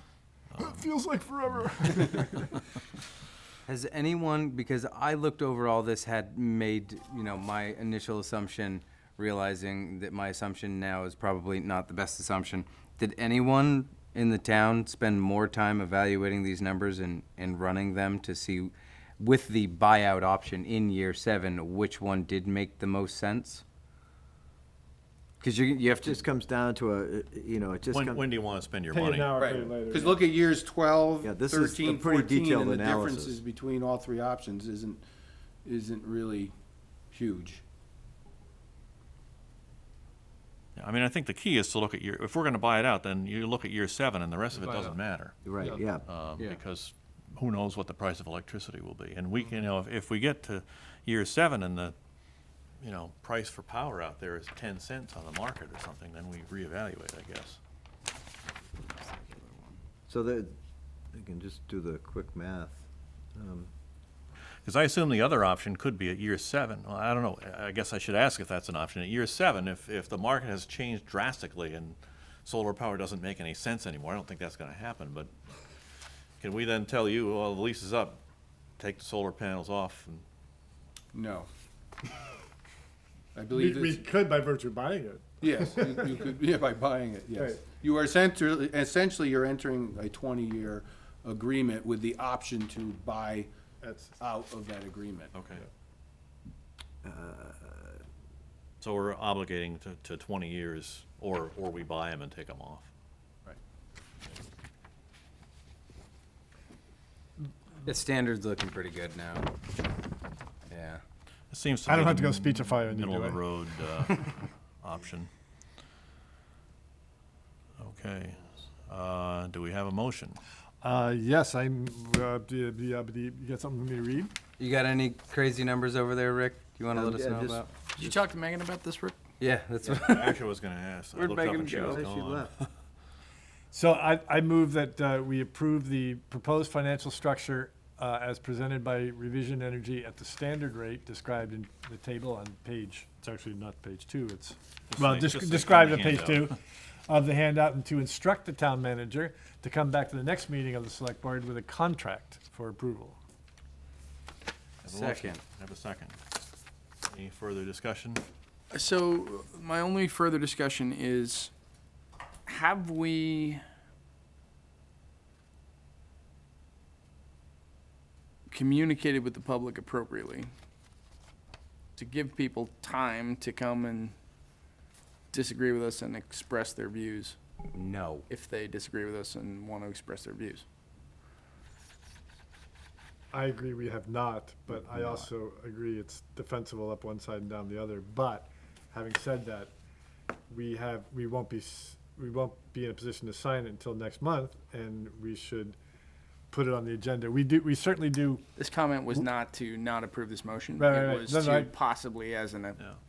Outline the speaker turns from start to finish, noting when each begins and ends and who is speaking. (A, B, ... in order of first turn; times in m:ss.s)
0:00.5-0:00.9 A
0:00.6-0:02.6 B
0:03.7-0:23.6 C
0:25.4-0:26.2 C
0:26.0-0:28.2 D
0:27.9-0:29.3 A
0:28.9-0:30.3 B
0:29.4-0:35.0 E
0:31.2-0:33.4 D
0:35.6-0:36.5 E
0:37.1-0:37.6 E
0:40.8-0:45.4 A
0:45.4-0:46.0 D
0:46.0-0:51.9 A
0:52.8-0:57.6 A
0:58.8-0:59.8 C
1:00.1-1:00.6 D
1:01.1-1:03.7 D
1:04.6-1:15.3 A
1:16.4-1:18.2 A
1:18.8-1:20.2 A
1:21.1-1:21.5 E
1:23.3-1:24.0 E
1:23.5-1:26.1 B
1:25.4-1:33.5 E
1:27.4-1:27.6 B
1:33.8-1:34.2 B
1:34.2-1:35.4 E
1:35.3-1:35.6 A
1:37.0-1:38.0 D
1:38.8-1:42.9 A
1:47.8-1:49.5 C
1:50.7-1:51.0 C
1:51.5-1:55.3 A
1:51.8-1:53.4 B
1:57.8-2:00.4 A
2:00.8-2:04.3 B
2:04.6-2:07.7 C
2:06.9-2:08.1 D
2:07.9-2:09.2 F
2:09.4-2:10.4 C
2:10.0-2:12.7 A
2:11.1-2:12.1 C
2:11.6-2:12.5 D
2:13.7-2:26.5 B
2:24.9-2:26.5 A
2:27.1-2:33.2 B
2:34.8-2:35.4 C
2:34.8-2:36.2 A
2:37.0-2:38.2 A
2:38.7-2:41.5 F
2:42.4-2:43.6 F
2:48.5-2:50.5 F
2:52.0-2:54.1 F
2:55.3-2:57.4 F
2:57.7-2:58.2 C
2:58.3-3:00.6 F
3:03.3-3:09.7 B
3:04.7-3:05.3 C
3:10.5-3:15.8 B
3:16.5-3:18.4 B
3:18.6-3:22.8 F
3:20.8-3:21.7 B